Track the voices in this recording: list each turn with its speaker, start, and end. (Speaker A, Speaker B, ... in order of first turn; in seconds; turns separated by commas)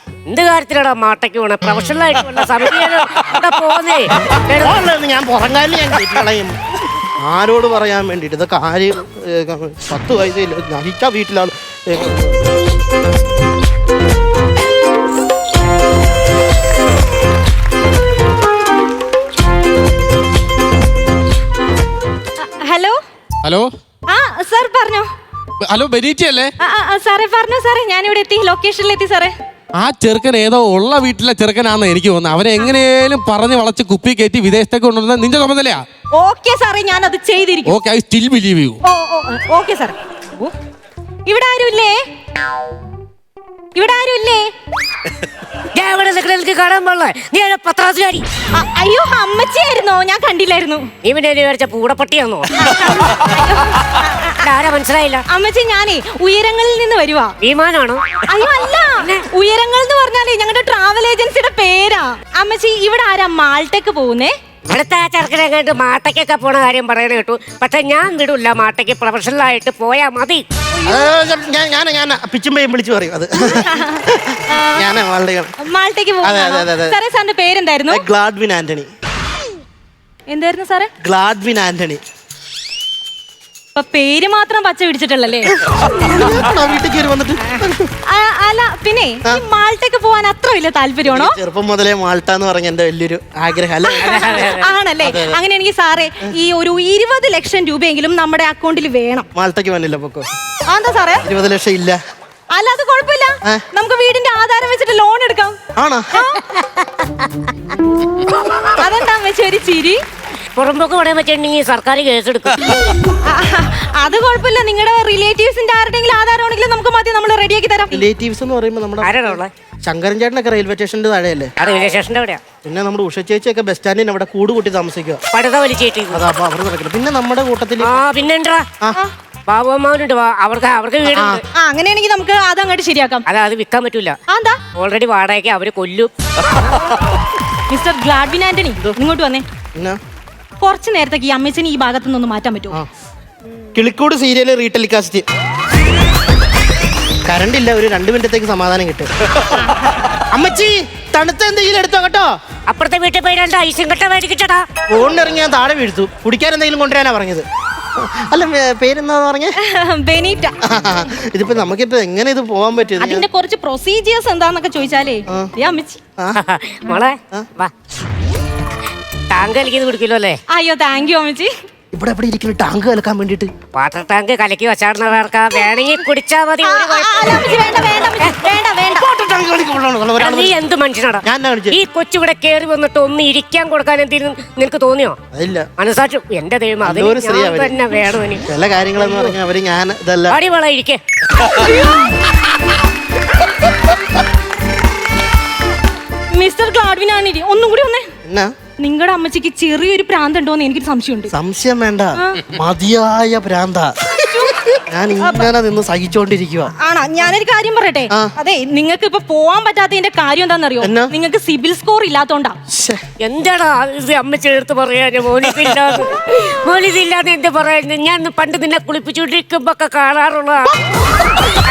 Speaker A: 0.3-4.8, Speaker B: 4.6-6.6, Speaker B: 7.2-12.5, Speaker C: 22.4-23.0, Speaker D: 23.4-23.7, Speaker C: 24.1-25.1, Speaker D: 25.6-26.5, Speaker C: 26.6-29.3, Speaker D: 29.8-35.8, Speaker C: 36.1-37.8, Speaker D: 37.6-38.8, Speaker C: 38.8-40.5, Speaker C: 41.2-42.0, Speaker C: 43.7-44.5, Speaker A: 45.7-48.2, Speaker C: 48.5-50.9, Speaker A: 51.0-52.5, Speaker C: 52.5-54.5, Speaker A: 54.4-55.2, Speaker C: 55.3-57.3, Speaker A: 57.4-58.3, Speaker C: 58.3-64.3, Speaker A: 59.0-59.2, Speaker A: 64.7-70.4, Speaker C: 70.7-71.1, Speaker B: 70.8-75.5, Speaker C: 73.4-74.9, Speaker C: 75.6-78.0, Speaker B: 76.2-77.0, Speaker B: 77.9-78.9, Speaker C: 80.3-80.9, Speaker B: 81.0-82.0, Speaker C: 83.7-85.5, Speaker B: 85.5-87.9, Speaker C: 87.5-91.4, Speaker B: 91.0-94.5, Speaker C: 93.8-99.3, Speaker A: 94.0-94.7, Speaker B: 95.0-95.4, Speaker B: 99.3-100.2, Speaker C: 100.7-101.2, Speaker B: 101.2-102.0, Speaker C: 102.5-105.6, Speaker B: 105.8-106.2, Speaker C: 106.1-106.4, Speaker A: 106.6-107.3, Speaker C: 108.7-110.0, Speaker A: 110.5-112.6, Speaker C: 113.1-118.0, Speaker B: 117.9-121.5, Speaker A: 119.0-119.5, Speaker A: 121.6-122.4, Speaker B: 122.6-125.2, Speaker A: 125.3-126.2, Speaker B: 126.1-128.0, Speaker A: 127.8-128.6, Speaker A: 129.5-131.4, Speaker B: 131.1-131.4, Speaker C: 131.5-133.2, Speaker A: 133.3-134.2, Speaker C: 134.3-134.6, Speaker A: 134.7-136.1, Speaker C: 137.7-139.4, Speaker C: 140.6-142.8, Speaker B: 143.7-145.2, Speaker B: 147.2-149.6, Speaker C: 149.5-149.9, Speaker B: 150.2-152.3, Speaker A: 152.7-154.6, Speaker B: 154.9-157.4, Speaker B: 158.0-159.6, Speaker C: 159.6-160.5, Speaker B: 160.6-163.2, Speaker C: 163.0-166.0, Speaker A: 166.4-167.7, Speaker A: 169.3-170.4, Speaker C: 170.5-171.5, Speaker B: 171.9-173.5, Speaker A: 173.7-178.5, Speaker C: 176.6-179.1, Speaker B: 178.9-180.6, Speaker A: 180.2-185.2, Speaker B: 181.2-181.8, Speaker B: 185.3-185.7, Speaker A: 185.8-188.5, Speaker B: 186.8-187.8, Speaker B: 188.4-190.4, Speaker A: 189.0-189.3, Speaker A: 190.3-191.0, Speaker C: 191.5-192.2, Speaker C: 196.3-198.1, Speaker B: 198.2-198.5, Speaker C: 198.8-201.3, Speaker B: 201.3-204.2, Speaker C: 202.2-202.4, Speaker C: 204.2-205.5, Speaker B: 204.8-206.7, Speaker C: 206.8-212.6, Speaker B: 208.1-208.3, Speaker B: 210.8-211.1, Speaker B: 212.7-213.0, Speaker A: 213.2-220.7